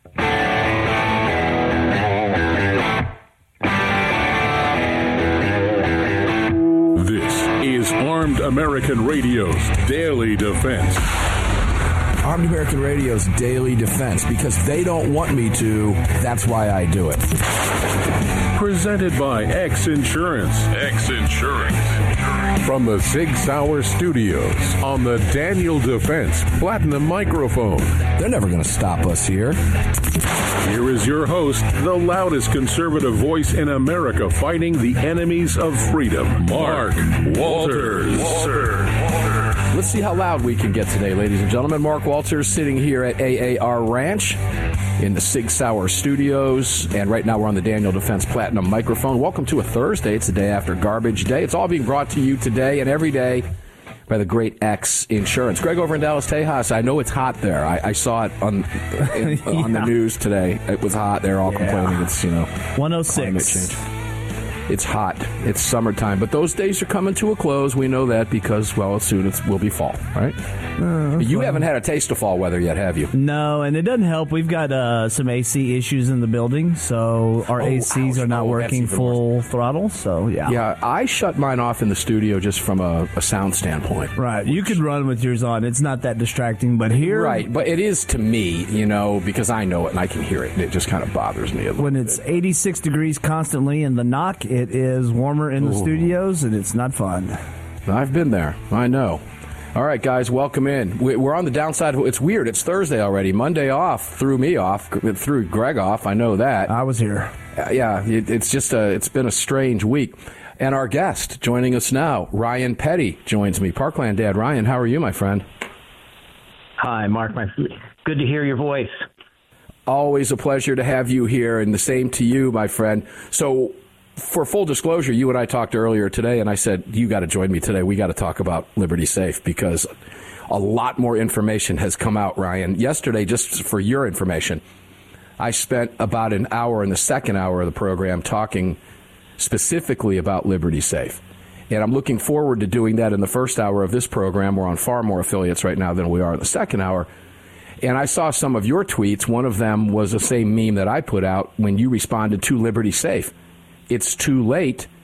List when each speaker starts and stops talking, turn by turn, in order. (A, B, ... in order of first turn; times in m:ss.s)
0:06.9-0:11.1 A
0:12.2-0:17.3 B
0:18.5-0:21.9 A
0:22.6-0:28.0 A
0:28.2-0:29.6 B
0:30.6-0:38.8 A
0:39.7-0:44.4 B
0:45.0-0:53.5 B
0:54.1-1:03.8 B
0:59.5-0:59.8 C
1:01.5-1:02.0 C
1:02.7-1:03.8 C
1:04.7-1:10.4 B
1:10.8-1:11.6 C
1:11.2-1:13.1 B
1:13.1-1:20.6 C
1:17.6-1:19.2 B
1:20.4-1:24.8 B
1:24.2-1:27.4 C
1:27.0-1:32.2 B
1:31.8-1:37.4 C
1:35.6-1:36.0 B
1:37.9-1:39.2 B
1:39.8-1:46.7 B
1:46.7-1:47.3 C
1:47.5-1:55.4 B
1:56.8-1:59.0 D
1:59.9-2:09.9 B
2:10.5-2:14.6 B
2:15.4-2:18.8 B
2:19.4-2:27.1 B
2:27.8-2:33.3 B
2:33.9-2:34.9 B